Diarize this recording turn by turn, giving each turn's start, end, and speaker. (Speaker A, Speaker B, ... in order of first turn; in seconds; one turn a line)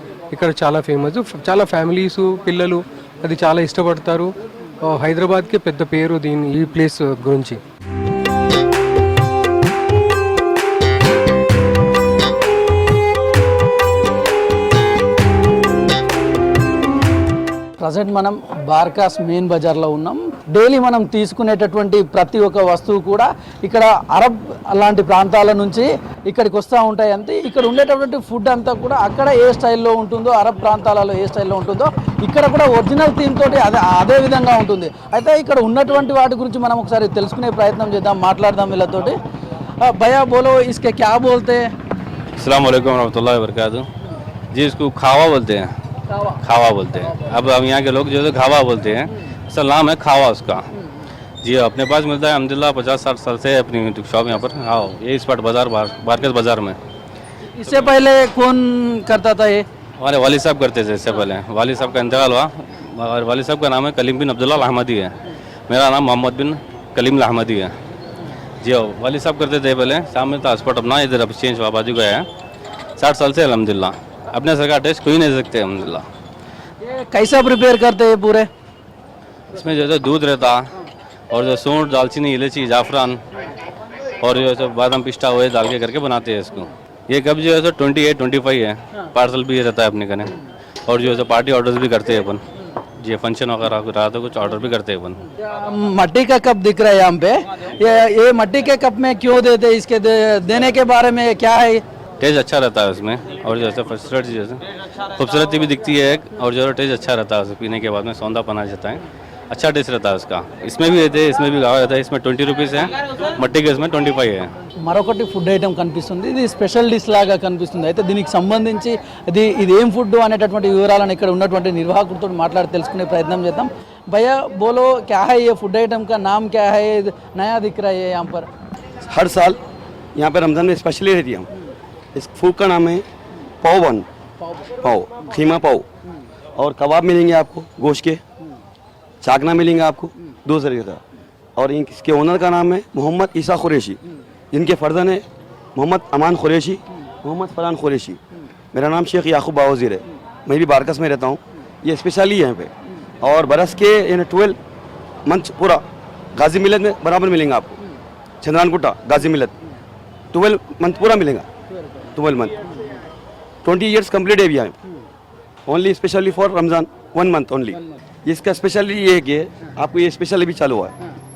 Speaker A: 0.3-4.3
Speaker A: 4.9-7.6
Speaker B: 17.8-39.1
Speaker B: 39.8-41.7
Speaker C: 42.4-43.9
Speaker C: 44.5-45.7
Speaker C: 46.4-50.6
Speaker C: 51.4-56.8
Speaker B: 57.5-59.6
Speaker C: 60.0-65.1
Speaker C: 65.7-67.7
Speaker C: 68.6-72.2
Speaker C: 73.0-76.0
Speaker B: 76.8-78.5
Speaker C: 79.5-80.6
Speaker C: 81.3-83.2
Speaker C: 84.2-90.3
Speaker C: 90.9-92.4
Speaker C: 93.0-95.2
Speaker B: 95.5-101.8
Speaker C: 102.2-104.6
Speaker C: 105.2-114.5
Speaker B: 114.8-128.5
Speaker D: 129.1-129.6
Speaker D: 130.2-131.5
Speaker D: 132.2-133.0
Speaker D: 133.6-134.1
Speaker D: 134.8-135.8
Speaker D: 136.6-138.2
Speaker D: 139.2-141.0
Speaker D: 141.6-144.0
Speaker D: 144.5-145.2
Speaker D: 145.8-148.2
Speaker D: 148.7-152.7
Speaker D: 153.2-154.6
Speaker D: 155.3-155.8
Speaker D: 156.4-157.8
Speaker D: 158.4-159.5
Speaker D: 160.3-161.5
Speaker D: 162.2-162.6
Speaker D: 163.6-164.7
Speaker D: 165.7-170.9